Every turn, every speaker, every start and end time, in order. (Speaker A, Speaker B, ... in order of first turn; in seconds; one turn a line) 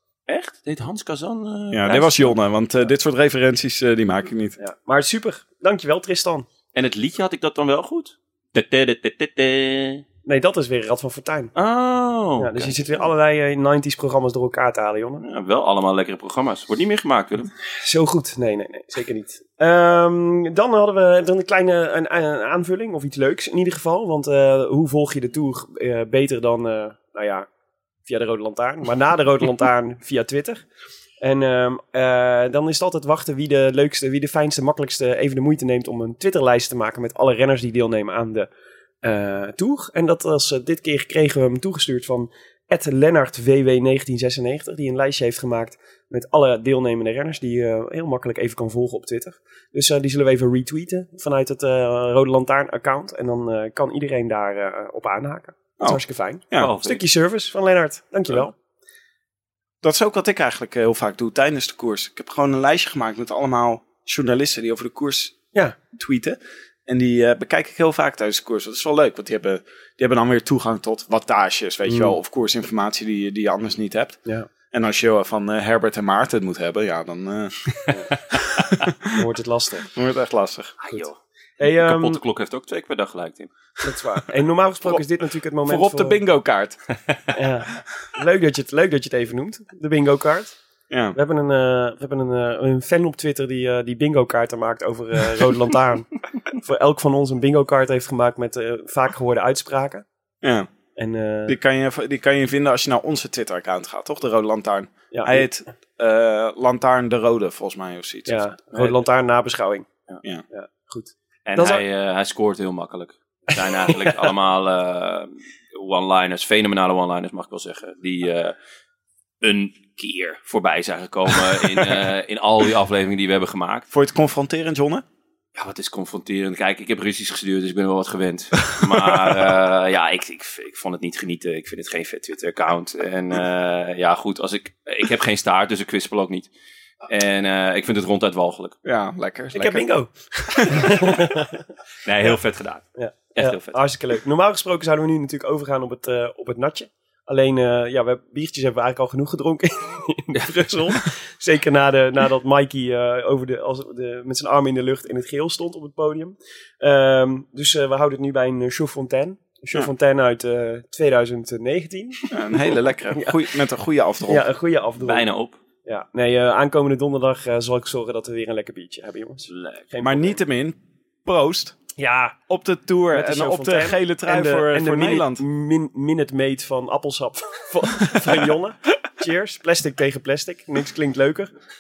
Speaker A: 0.3-2.4
Speaker B: 1.7-4.6
Speaker C: 4.6-6.5
Speaker A: 6.7-10.0
Speaker C: 10.3-11.5
Speaker A: 11.6-13.1
Speaker C: 12.4-15.2
Speaker A: 15.2-17.5
Speaker C: 17.8-27.5
Speaker C: 28.1-30.6
Speaker C: 31.2-38.5
Speaker C: 39.0-58.5
Speaker B: 55.8-56.8
Speaker A: 56.6-57.0
Speaker B: 59.8-65.4
Speaker B: 65.9-74.2
Speaker C: 71.9-72.2
Speaker B: 74.7-77.5
Speaker C: 79.1-79.9
Speaker B: 79.9-80.8
Speaker A: 80.8-83.5
Speaker C: 81.6-82.2
Speaker C: 83.8-86.2
Speaker B: 85.7-86.8
Speaker C: 87.3-90.5
Speaker B: 90.9-91.2
Speaker C: 91.1-100.0
Speaker B: 100.4-100.7
Speaker C: 101.0-101.6
Speaker B: 101.5-108.5
Speaker C: 105.1-105.5
Speaker C: 108.3-109.9
Speaker C: 110.5-111.8
Speaker A: 111.5-118.5
Speaker C: 113.9-114.1
Speaker A: 119.4-123.9
Speaker B: 123.9-125.0
Speaker A: 125.5-136.5
Speaker A: 137.1-138.8
Speaker B: 138.8-139.9
Speaker C: 139.5-141.6
Speaker B: 140.5-140.9
Speaker A: 142.1-143.8
Speaker C: 143.0-162.3
Speaker B: 162.3-164.5
Speaker C: 164.3-165.3
Speaker A: 165.0-165.6
Speaker C: 165.9-170.4
Speaker A: 169.5-169.9
Speaker B: 170.0-171.8
Speaker C: 172.0-172.4
Speaker B: 172.5-175.4
Speaker C: 173.1-181.5